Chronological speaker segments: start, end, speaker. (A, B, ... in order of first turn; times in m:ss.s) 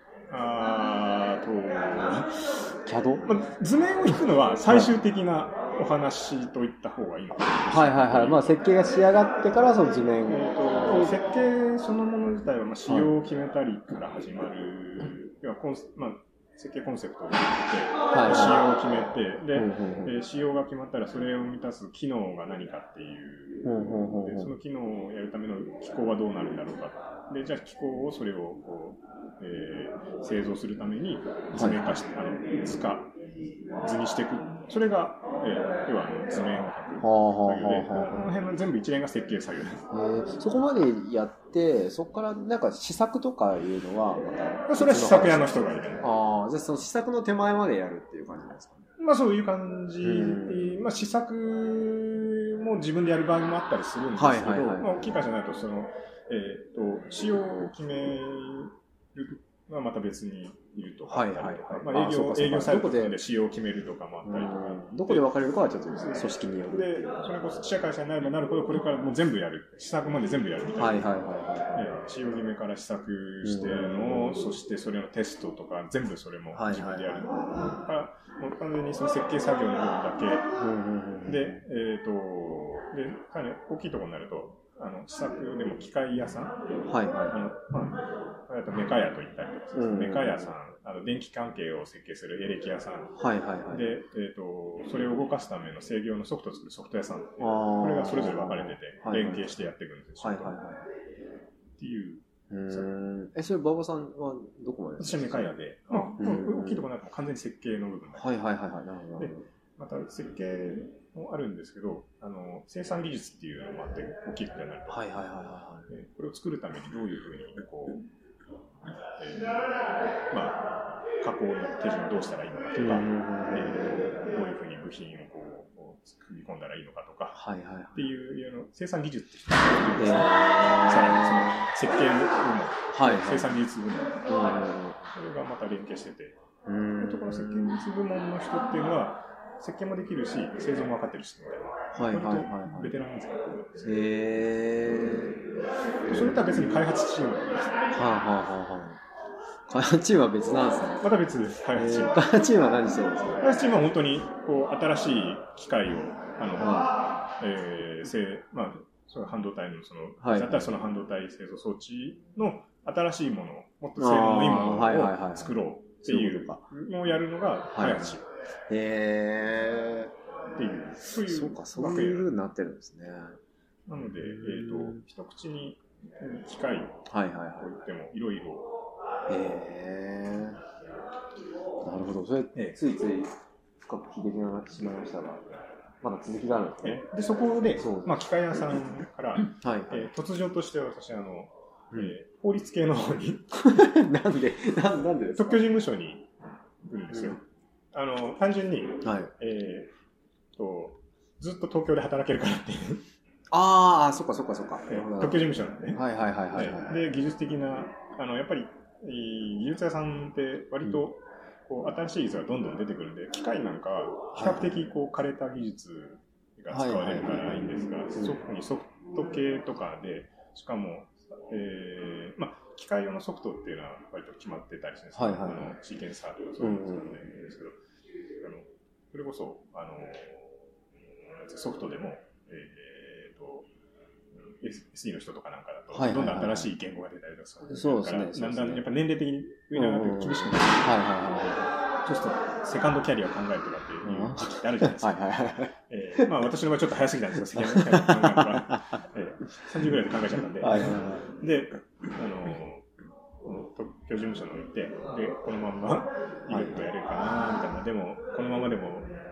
0:00.3-0:08.7 A
0:02.8-0:03.4 B
0:07.7-0:11.1 B
0:10.3-0:33.1 A
0:18.1-0:18.6 B
0:19.5-0:20.2 B
0:23.6-0:24.5 B
0:31.5-0:31.9 B
0:33.8-0:39.8 A
0:37.0-0:38.3 B
0:39.9-0:48.9 B
0:44.7-0:46.1 A
0:49.0-1:05.3 A
0:50.0-0:50.8 B
0:54.2-0:55.0 B
1:01.1-1:03.2 B
1:04.2-1:07.0 B
1:05.9-1:11.2 A
1:10.8-1:11.9 B
1:11.7-1:20.5 A
1:13.4-1:14.4 B
1:16.5-1:17.5 B
1:20.6-1:21.6 B
1:21.2-1:26.6 A
1:26.9-1:27.4 B
1:27.3-1:40.6 A
1:29.7-1:30.5 B
1:33.2-1:33.9 B
1:37.4-1:39.6 B
1:40.2-1:40.8 B
1:41.8-1:42.9 A
1:42.5-1:46.8 B
1:45.0-1:48.4 A
1:48.2-1:49.4 B
1:49.2-1:55.1 A
1:54.9-1:55.9 B
1:55.9-1:58.0 A
1:59.2-1:59.8 A
2:00.3-2:07.4 A
2:02.8-2:04.1 B
2:07.3-2:08.0 B
2:07.9-2:16.4 A
2:10.0-2:11.7 B
2:12.9-2:13.6 B
2:14.3-2:15.1 B
2:16.6-2:17.8 B
2:17.0-2:23.9 A
2:21.9-2:22.9 B
2:23.8-2:25.4 B
2:26.1-2:26.8 B
2:26.1-2:27.8 A
2:27.9-2:29.0 B
2:29.7-2:31.0 B
2:31.0-2:32.3 A
2:31.7-2:33.5 B
2:33.4-2:48.3 A
2:36.6-2:37.0 B
2:40.2-2:40.7 B
2:44.0-2:46.6 B
2:47.7-2:48.2 B
2:48.7-2:50.1 B
2:50.6-2:52.3 A
2:51.2-2:53.4 B
2:53.8-2:58.7 A
2:54.0-2:55.0 B
2:57.1-2:57.7 B
2:59.3-3:00.6 B
3:01.8-3:05.4 B
3:06.0-3:07.0 B
3:06.8-3:13.6 A
3:07.8-3:08.2 B
3:09.6-3:10.0 B
3:13.5-3:15.6 B
3:15.4-3:16.3 A
3:16.8-3:19.9 A
3:19.0-3:19.3 B
3:20.5-3:23.0 A
3:23.5-3:27.0 B
3:24.9-3:47.8 A
3:34.3-3:34.8 B
3:36.7-3:38.4 B
3:45.1-3:45.8 B
3:46.6-3:47.2 B
3:48.4-3:50.5 A
3:51.3-3:53.7 A
3:54.4-4:00.9 A
3:55.9-3:56.7 B
3:57.6-3:58.9 B
3:59.7-4:01.7 B
4:02.0-4:12.9 A
4:04.0-4:06.3 B
4:07.5-4:09.0 B
4:10.6-4:11.3 B
4:13.4-4:19.1 A
4:16.5-4:16.8 B